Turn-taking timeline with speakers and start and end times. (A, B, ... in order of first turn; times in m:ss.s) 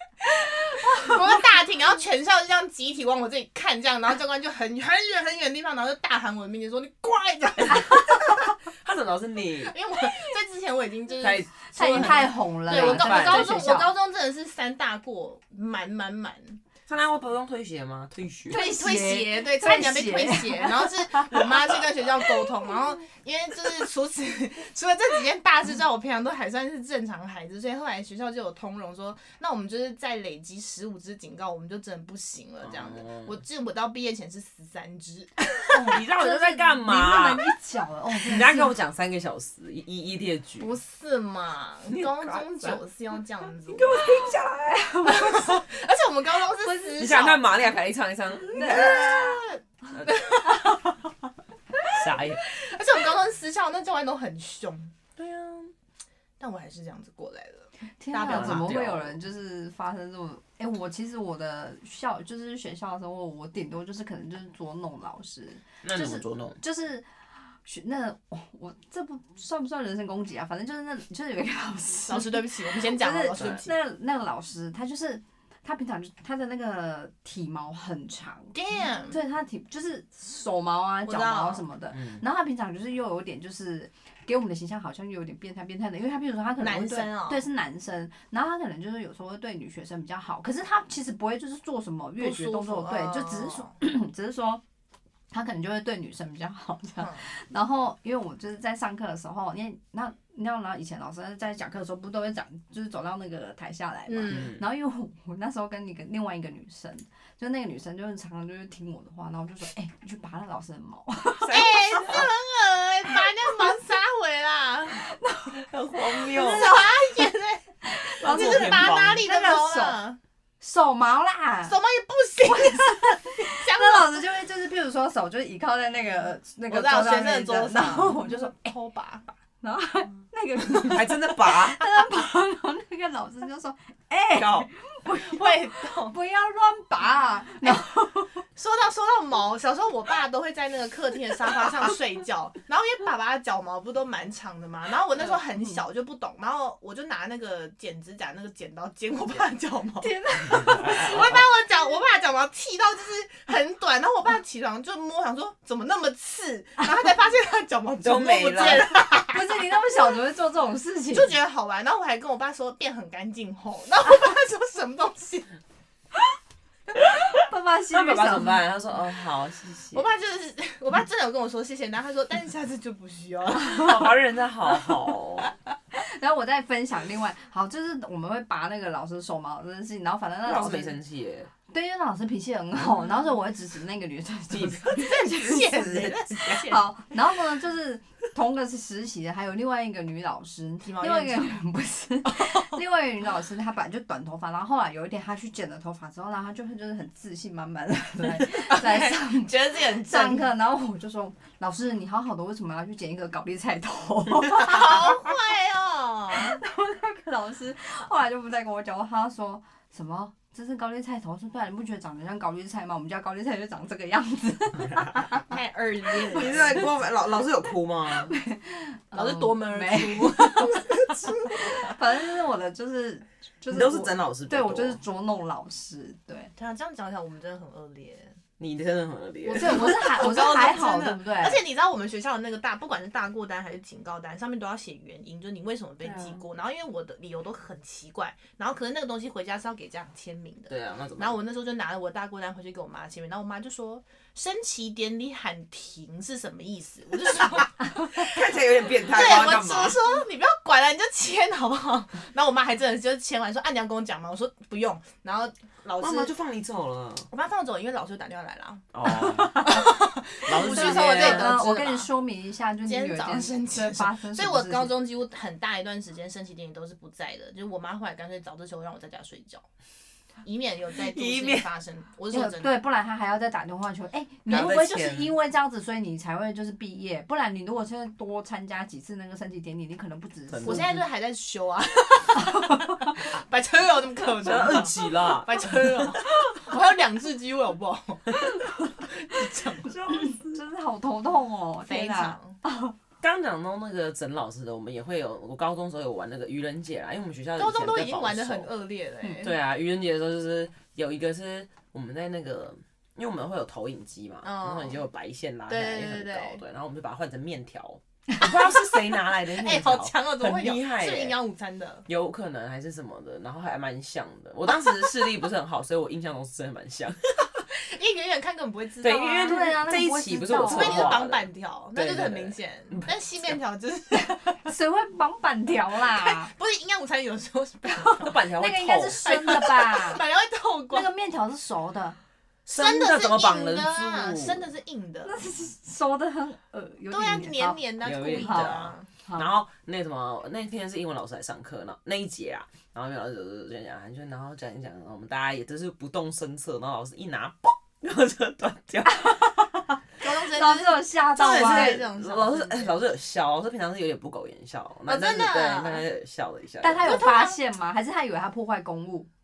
0:00.2-0:08.5 A
0:07.6-0:09.8 B
0:09.6-0:16.6 A
0:11.2-0:13.5 B
0:11.7-0:13.9 C
0:16.9-0:18.6 B
0:18.5-0:21.4 C
0:18.5-0:35.9 A
0:32.6-0:33.4 B
0:35.7-0:38.7 C
0:35.8-0:37.4 B
0:38.2-0:40.7 B
0:40.6-0:44.3 A
0:41.9-0:42.8 B
0:43.7-0:45.3 B
0:44.0-0:45.4 C
0:45.0-0:47.5 A
0:46.6-0:46.9 C
0:47.0-0:50.2 B
0:48.5-0:49.3 C
0:48.6-0:50.8 A
0:50.5-0:50.7 C
0:51.9-0:52.4 B
0:52.4-0:54.9 A
0:55.2-0:55.7 B
0:56.4-0:58.7 A
0:58.0-1:07.0 C
0:58.2-0:59.1 B
1:05.8-1:06.6 B
1:07.6-1:18.5 C
1:12.1-1:13.7 A
1:13.3-1:13.6 B
1:18.5-1:19.2 A
1:19.1-1:34.6 C
1:21.0-1:21.6 A
1:21.9-1:22.2 B
1:26.6-1:27.4 A
1:32.2-1:33.7 A
1:35.3-1:52.2 C
1:37.0-1:37.2 A
1:44.1-1:44.5 A
1:44.3-1:44.6 B
1:51.4-1:52.3 B
1:51.5-1:55.0 A
1:54.9-1:55.6 C
1:55.5-1:56.8 B
1:56.2-1:57.3 C
1:56.3-1:57.6 A
1:57.8-2:00.0 C
1:58.2-2:00.2 A
1:58.2-1:59.2 B
2:00.6-2:01.8 C
2:01.6-2:04.2 A
2:02.4-2:08.7 C
2:06.7-2:09.3 A
2:09.6-2:18.4 C
2:10.8-2:11.8 B
2:14.3-2:14.7 B
2:15.1-2:16.2 A
2:18.5-2:39.5 A
2:30.0-2:31.2 C
2:30.4-2:31.4 B
2:38.0-2:38.9 B
2:39.3-2:41.3 C
2:41.1-2:45.5 A
2:47.0-2:48.6 C
2:47.9-2:50.0 B
2:49.9-2:54.1 A
2:53.6-2:55.5 B
2:55.9-3:01.0 C
3:00.4-3:01.5 B
3:01.7-3:25.3 C
3:04.5-3:06.7 B
3:04.9-3:06.8 A
3:10.8-3:11.5 A
3:18.5-3:20.4 A
3:24.5-3:26.6 A
3:26.3-3:35.5 C
3:34.8-3:35.1 B
3:35.5-3:37.0 A
3:36.3-3:38.3 B
3:38.3-3:46.5 C
3:39.1-3:41.6 A
3:43.7-3:45.0 B
3:46.6-3:48.4 A
3:48.6-3:50.1 B
3:49.4-3:51.6 C
3:49.6-4:16.3 A
3:56.0-3:56.4 C
4:00.7-4:01.4 B
4:08.2-4:10.0 B
4:16.0-4:17.3 B
4:17.3-4:22.1 A
4:18.9-4:19.9 B
4:19.1-4:19.9 C
4:20.4-4:21.6 B
4:20.6-4:25.0 C
4:22.8-4:29.6 A
4:30.4-4:32.8 A
4:31.1-4:31.7 B
4:32.3-4:40.9 C
4:34.5-4:35.3 B
4:40.5-4:41.0 B
4:40.6-4:50.0 A
4:42.5-4:43.1 C
4:44.3-4:46.5 B
4:49.8-4:50.6 B
4:49.9-4:52.9 C
4:51.9-4:52.6 A
4:53.2-4:58.7 B
4:57.6-4:59.6 A
4:59.4-5:11.4 B
5:04.4-5:05.0 A
5:05.7-5:06.6 A
5:08.6-5:12.0 A
5:12.0-5:17.6 B
5:14.8-5:15.1 A
5:17.7-5:19.6 A
5:19.0-5:23.6 B
5:19.4-5:21.2 C
5:20.6-5:24.6 A
5:24.1-5:26.5 C
5:26.1-5:28.4 A
5:27.9-5:30.2 C
5:28.2-5:29.2 B
5:29.2-5:31.1 A
5:30.9-5:32.2 C
5:32.6-5:34.7 B
5:32.7-5:35.4 A
5:35.2-5:39.5 C
5:37.1-5:39.1 A
5:38.0-5:49.3 B
5:49.1-5:52.0 C
5:50.2-5:53.0 A
5:51.4-5:57.3 B
5:55.1-5:56.0 A
5:56.8-5:59.3 C
5:57.0-5:57.6 A